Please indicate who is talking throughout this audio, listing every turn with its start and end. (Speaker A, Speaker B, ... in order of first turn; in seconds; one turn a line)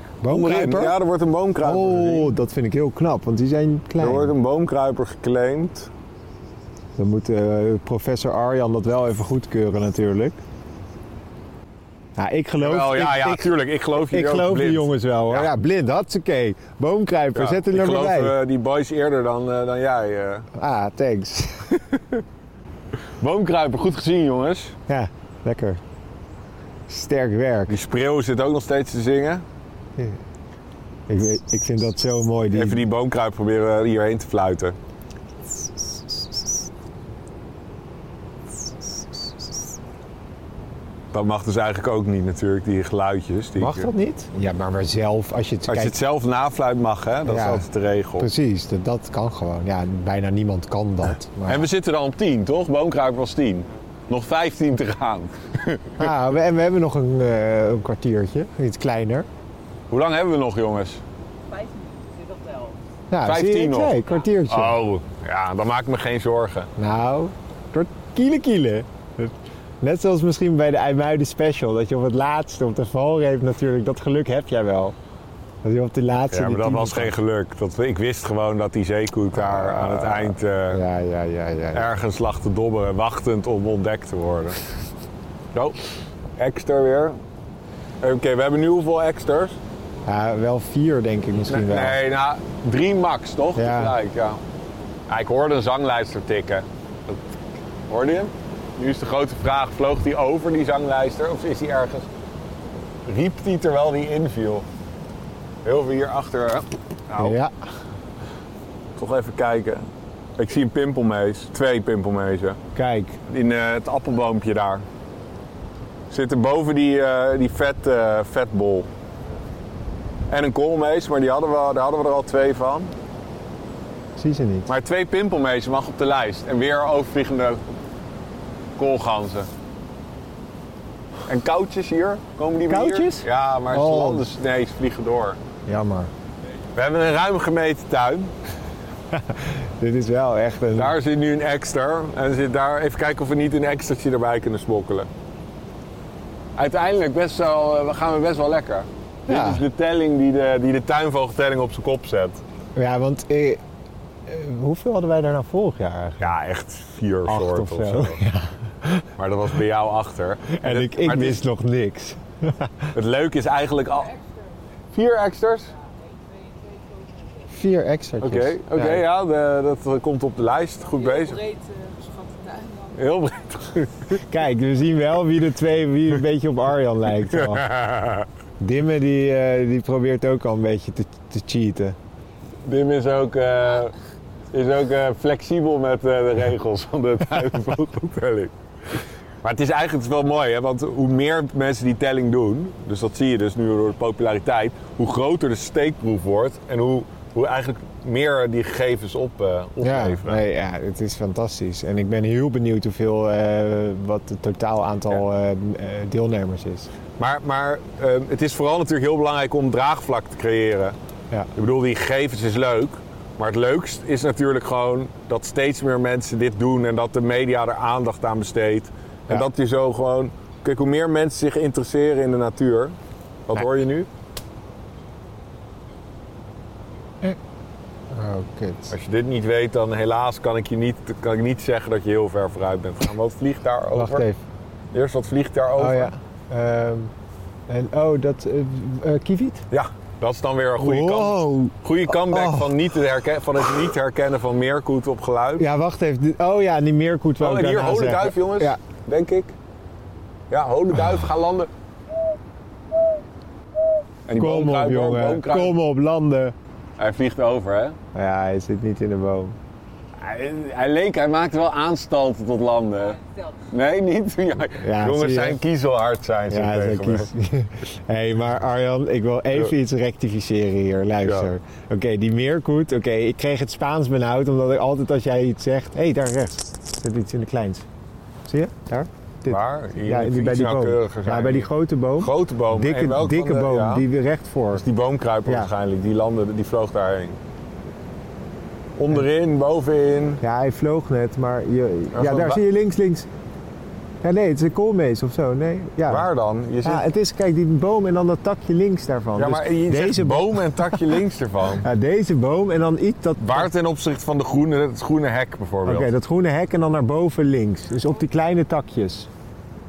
Speaker A: 0.2-1.0
Speaker B: 0.3-2.4
Speaker A: 1.6-4.3
Speaker B: 4.0-5.9
Speaker A: 7.0-10.4
Speaker A: 12.2-18.4
Speaker B: 12.6-15.5
Speaker B: 17.4-20.5
Speaker A: 20.5-21.8
Speaker B: 21.8-22.2
Speaker B: 23.2-24.8
Speaker A: 24.9-25.8
Speaker A: 26.9-27.7
Speaker B: 27.7-29.4
Speaker A: 31.1-32.9
Speaker B: 32.5-34.8
Speaker B: 41.1-43.9
Speaker A: 43.6-46.0
Speaker B: 45.7-48.3
Speaker A: 47.3-47.7
Speaker A: 48.2-51.7
Speaker B: 51.5-56.1
Speaker A: 56.0-59.3
Speaker B: 59.9-61.0
Speaker C: 61.5-62.8
Speaker A: 63.1-64.8
Speaker B: 63.2-66.7
Speaker A: 66.8-75.0
Speaker A: 75.6-77.1
Speaker B: 76.3-80.8
Speaker A: 79.3-81.9
Speaker B: 81.7-84.6
Speaker B: 85.5-85.8
Speaker B: 86.4-87.2
Speaker B: 88.0-89.6
Speaker A: 90.1-92.0
Speaker B: 91.5-94.4
Speaker A: 93.6-94.0
Speaker B: 95.1-97.2
Speaker B: 97.9-102.1
Speaker B: 103.0-104.7
Speaker B: 105.7-107.4
Speaker A: 107.2-107.6
Speaker B: 109.0-112.6
Speaker A: 112.8-113.2
Speaker B: 113.3-114.8
Speaker B: 116.1-118.9
Speaker B: 120.3-122.9
Speaker A: 124.2-124.7
Speaker B: 124.7-127.6
Speaker B: 128.8-129.5
Speaker B: 131.3-135.4
Speaker A: 132.7-134.3
Speaker A: 135.7-136.1
Speaker B: 136.8-138.3
Speaker A: 139.1-141.0
Speaker B: 140.8-145.1
Speaker B: 146.6-152.4
Speaker A: 149.3-149.6
Speaker A: 152.8-153.6
Speaker A: 154.3-156.3
Speaker B: 156.2-158.2
Speaker A: 157.3-159.1
Speaker B: 159.2-161.4
Speaker A: 160.6-162.9
Speaker B: 162.9-164.1
Speaker C: 163.8-164.7
Speaker B: 164.9-165.7
Speaker C: 165.7-167.6
Speaker A: 167.5-169.0
Speaker B: 168.2-171.4
Speaker C: 170.8-173.2
Speaker B: 173.0-174.2
Speaker A: 174.3-177.7
Speaker B: 177.2-178.3
Speaker A: 178.6-182.0
Speaker B: 182.7-183.9
Speaker B: 184.5-188.5
Speaker B: 189.4-200.4
Speaker A: 199.8-206.9
Speaker B: 207.2-211.0
Speaker B: 211.6-223.0
Speaker B: 223.5-224.1
Speaker A: 228.1-228.9
Speaker B: 228.9-234.3
Speaker A: 233.9-234.4
Speaker B: 234.9-236.1
Speaker A: 235.8-237.1
Speaker A: 237.7-239.7
Speaker B: 239.7-245.7
Speaker A: 240.8-242.8
Speaker A: 245.6-248.8
Speaker B: 247.4-249.6
Speaker B: 250.5-251.7
Speaker B: 254.3-255.7
Speaker A: 254.4-256.6
Speaker B: 257.0-258.0
Speaker A: 258.1-259.6
Speaker B: 260.2-263.2
Speaker C: 263.0-263.7
Speaker B: 263.7-267.3
Speaker A: 264.8-265.6
Speaker A: 266.5-277.9
Speaker B: 271.2-271.5
Speaker A: 278.5-284.8
Speaker B: 279.5-284.1
Speaker B: 284.7-287.4
Speaker A: 285.5-285.7
Speaker B: 289.0-290.4
Speaker A: 290.4-293.3
Speaker B: 292.1-292.6
Speaker A: 294.2-296.3
Speaker B: 296.1-297.1
Speaker A: 296.8-301.2
Speaker B: 299.4-301.9
Speaker A: 301.8-303.7
Speaker B: 303.4-306.1
Speaker A: 305.9-309.3